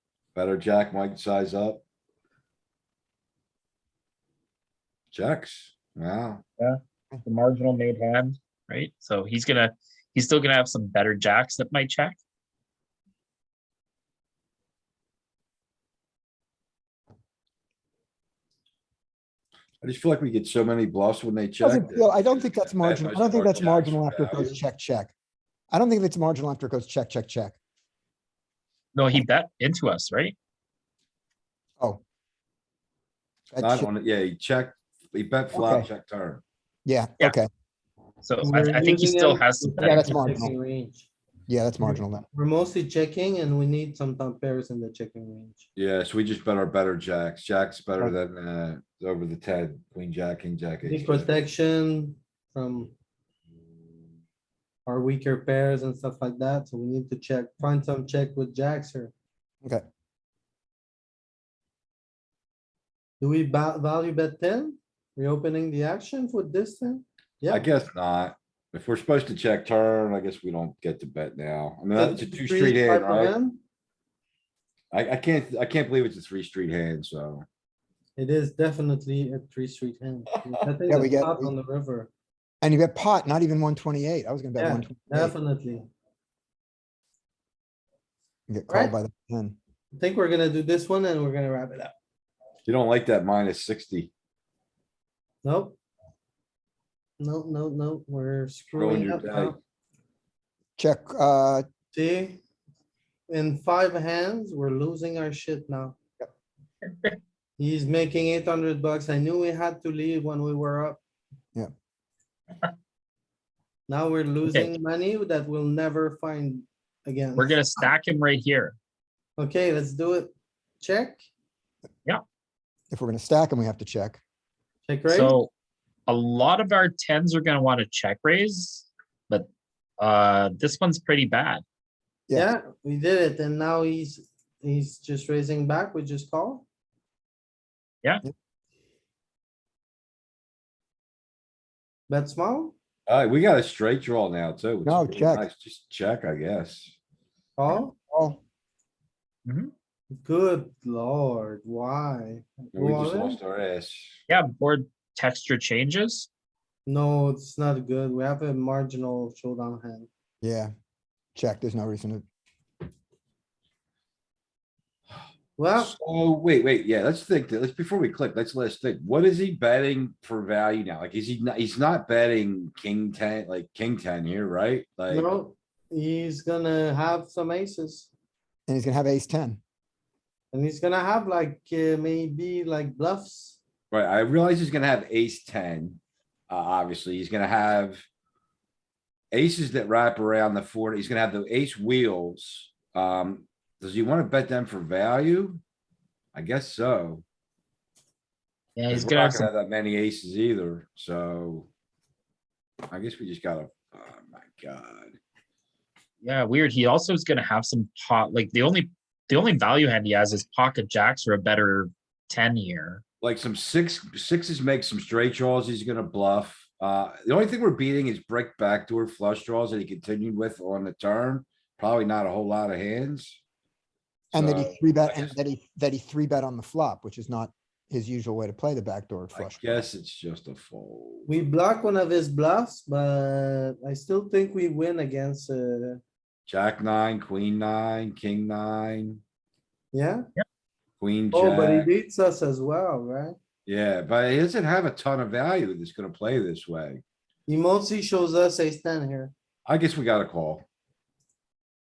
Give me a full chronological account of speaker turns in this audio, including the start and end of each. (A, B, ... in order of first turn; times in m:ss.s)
0:00.3-0:01.8 A
0:05.1-0:06.4 A
0:06.6-0:12.2 B
0:19.8-0:24.6 A
0:21.6-0:25.1 C
0:25.7-0:27.6 C
0:28.9-0:30.3 B
0:33.5-0:33.9 C
0:33.6-0:36.4 A
0:35.5-0:35.9 C
0:36.8-0:37.5 C
0:38.2-0:40.4 B
0:38.4-0:41.1 D
0:39.8-0:40.5 C
0:41.5-0:42.2 C
0:41.8-0:45.6 D
0:45.8-0:51.3 A
0:50.9-0:52.9 D
0:54.8-0:59.1 D
1:03.2-1:07.6 D
1:07.5-1:13.3 A
1:11.9-1:13.6 D
1:14.9-1:17.4 A
1:18.2-1:22.1 D
1:20.9-1:21.5 C
1:22.6-1:25.3 C
1:24.6-1:25.9 D
1:28.5-1:29.6 C
1:28.7-1:28.9 D
1:30.0-1:31.9 D
1:32.6-1:34.1 A
1:35.4-1:35.8 D
1:37.2-1:39.6 D
1:38.8-1:39.6 A
1:40.8-1:41.6 C
1:41.9-1:42.4 D
1:43.3-1:46.0 D
1:47.6-1:51.0 D
1:53.9-1:57.7 D
1:57.4-1:58.7 B
1:59.4-2:01.2 D
2:02.9-2:04.2 C
2:04.8-2:05.4 D
2:05.1-2:05.5 B
2:06.1-2:09.5 B
2:10.0-2:11.6 B
2:12.3-2:16.6 D
2:22.1-2:22.7 D
2:23.1-2:26.9 A
2:24.8-2:25.4 C
2:27.6-2:27.9 D
2:28.0-2:28.4 C
2:29.4-2:29.7 B
2:30.1-2:33.4 D
2:32.7-2:34.2 A
2:34.3-2:36.3 B
2:36.8-2:40.1 D
2:40.4-2:40.7 C
2:41.3-2:42.2 C
2:45.6-2:45.9 D
2:45.8-2:55.3 A
2:55.1-2:58.1 D
2:58.7-2:59.6 C
3:00.5-3:03.6 D
3:03.9-3:08.0 A
3:09.3-3:15.6 A
3:16.3-3:17.2 A
3:18.8-3:19.5 B
3:18.9-3:21.7 A
3:22.9-3:25.2 A
3:26.2-3:33.0 B
3:33.2-3:43.4 A
3:44.3-3:45.3 A
3:44.3-3:49.8 C
3:49.3-3:51.3 A
3:51.3-3:56.0 D
3:56.5-3:59.2 A
3:59.9-4:00.2 D
4:01.0-4:01.9 A
4:01.3-4:03.4 D
4:03.6-4:07.0 A
4:07.5-4:09.3 D
4:09.6-4:10.6 A